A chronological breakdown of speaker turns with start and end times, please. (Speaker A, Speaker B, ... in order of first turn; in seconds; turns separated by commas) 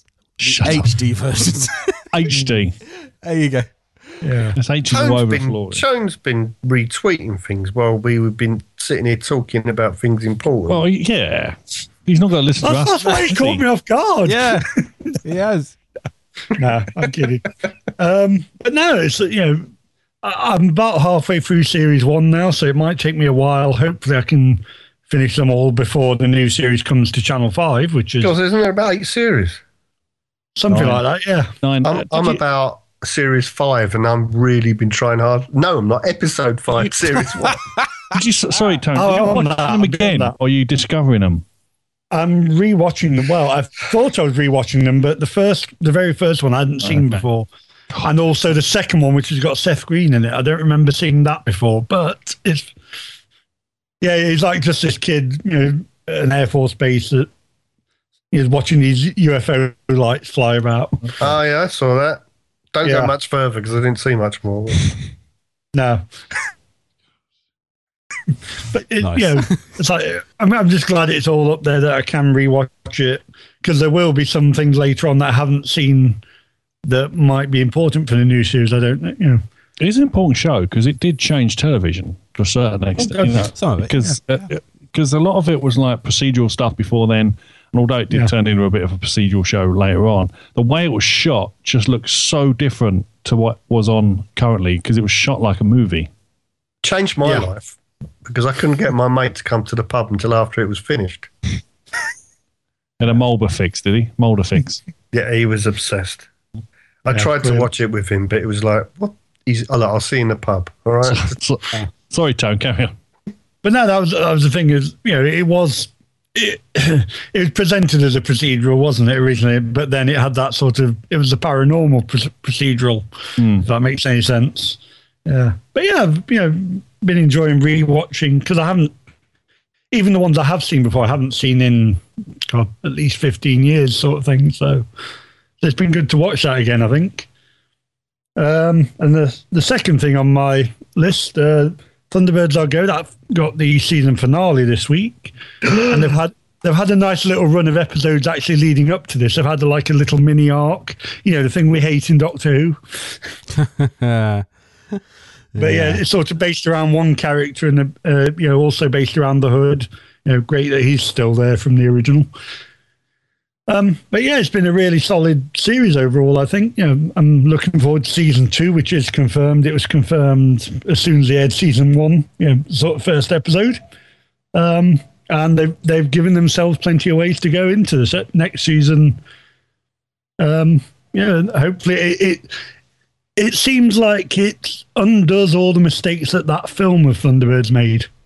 Speaker A: 0.4-0.9, Speaker B: 0.5-2.3, Speaker A: 2.1-2.8, Speaker B: 3.0-3.7, Speaker C: 4.2-4.6, Speaker A: 4.5-5.8, Speaker D: 4.9-10.8, Speaker A: 10.7-13.6, Speaker C: 12.6-15.1, Speaker B: 14.2-14.7, Speaker B: 15.2-15.8, Speaker C: 16.6-19.7, Speaker C: 20.2-28.3, Speaker D: 28.2-29.6, Speaker C: 30.6-31.5, Speaker D: 30.7-31.0, Speaker A: 31.6-32.4, Speaker D: 31.8-37.6, Speaker A: 38.1-41.4, Speaker C: 38.9-40.3, Speaker C: 42.1-47.5, Speaker A: 46.8-47.2, Speaker C: 48.0-52.7, Speaker C: 54.0-57.3, Speaker C: 58.3-61.2, Speaker D: 61.2-62.2, Speaker D: 62.7-64.8, Speaker C: 62.8-63.1, Speaker C: 65.7-66.1, Speaker C: 68.7-76.2, Speaker B: 69.0-69.6, Speaker C: 76.8-79.4, Speaker A: 79.8-96.1, Speaker C: 83.0-83.5, Speaker B: 83.5-84.1, Speaker D: 96.8-97.7, Speaker D: 98.2-101.3, Speaker A: 103.0-104.8, Speaker D: 105.1-106.3, Speaker D: 107.0-111.3, Speaker C: 107.1-107.7, Speaker A: 111.1-112.9, Speaker C: 113.6-128.9, Speaker A: 123.4-123.7, Speaker C: 129.9-134.8, Speaker C: 135.6-137.3, Speaker C: 138.3-153.2, Speaker B: 153.6-155.0, Speaker B: 155.5-156.0, Speaker C: 155.6-162.3, Speaker C: 163.7-173.8, Speaker C: 174.5-179.2, Speaker C: 180.4-182.5, Speaker C: 183.3-188.1